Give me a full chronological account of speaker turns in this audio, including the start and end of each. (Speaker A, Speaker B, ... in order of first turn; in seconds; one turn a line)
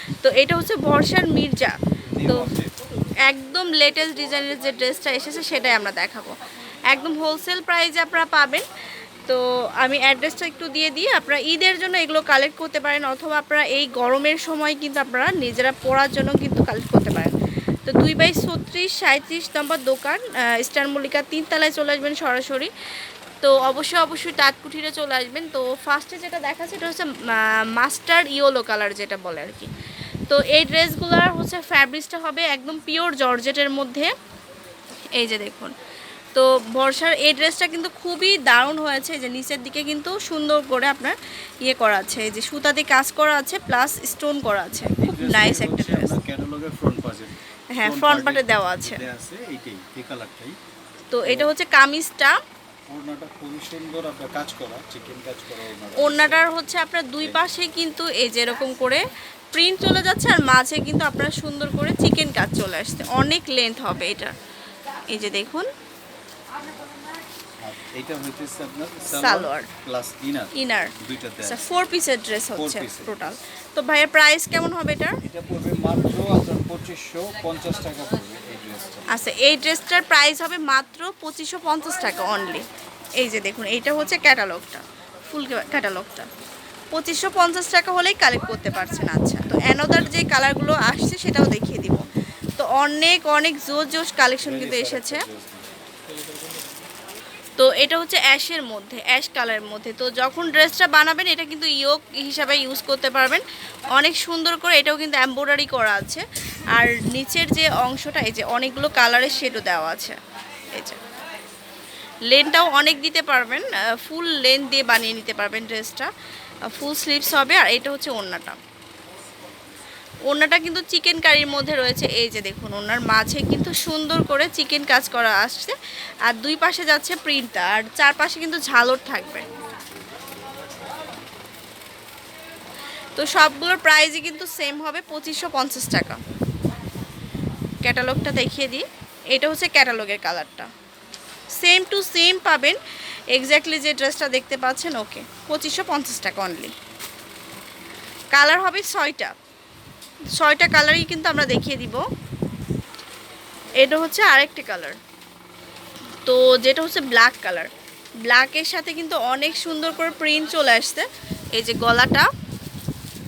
Speaker A: 0.2-2.5
Speaker B: 2.1-2.7
Speaker A: 3.2-6.3
Speaker A: 6.9-8.6
Speaker A: 9.3-22.7
Speaker A: 23.4-29.7
Speaker A: 30.3-34.1
Speaker A: 35.1-35.7
Speaker A: 36.3-46.2
Speaker B: 45.0-50.6
Speaker A: 47.7-49.0
Speaker A: 51.1-52.3
Speaker B: 51.2-51.5
Speaker B: 52.9-56.4
Speaker A: 56.0-59.0
Speaker A: 59.5-64.3
Speaker A: 65.1-65.7
Speaker B: 67.6-71.6
Speaker A: 69.1-69.7
Speaker A: 70.5-75.2
Speaker B: 72.5-73.1
Speaker B: 75.2-79.2
Speaker A: 79.1-82.6
Speaker A: 83.2-86.3
Speaker A: 86.9-95.2
Speaker B: 94.4-95.7
Speaker A: 97.6-106.2
Speaker A: 106.7-110.2
Speaker A: 110.7-111.0
Speaker A: 112.3-116.1
Speaker A: 116.7-118.6
Speaker A: 120.3-125.7
Speaker A: 126.3-129.4
Speaker A: 133.2-136.2
Speaker A: 137.8-140.7
Speaker A: 141.6-142.8
Speaker A: 143.3-146.7
Speaker A: 148.3-149.3
Speaker A: 150.4-152.0
Speaker A: 153.8-155.0
Speaker A: 156.3-157.7
Speaker A: 158.3-162.3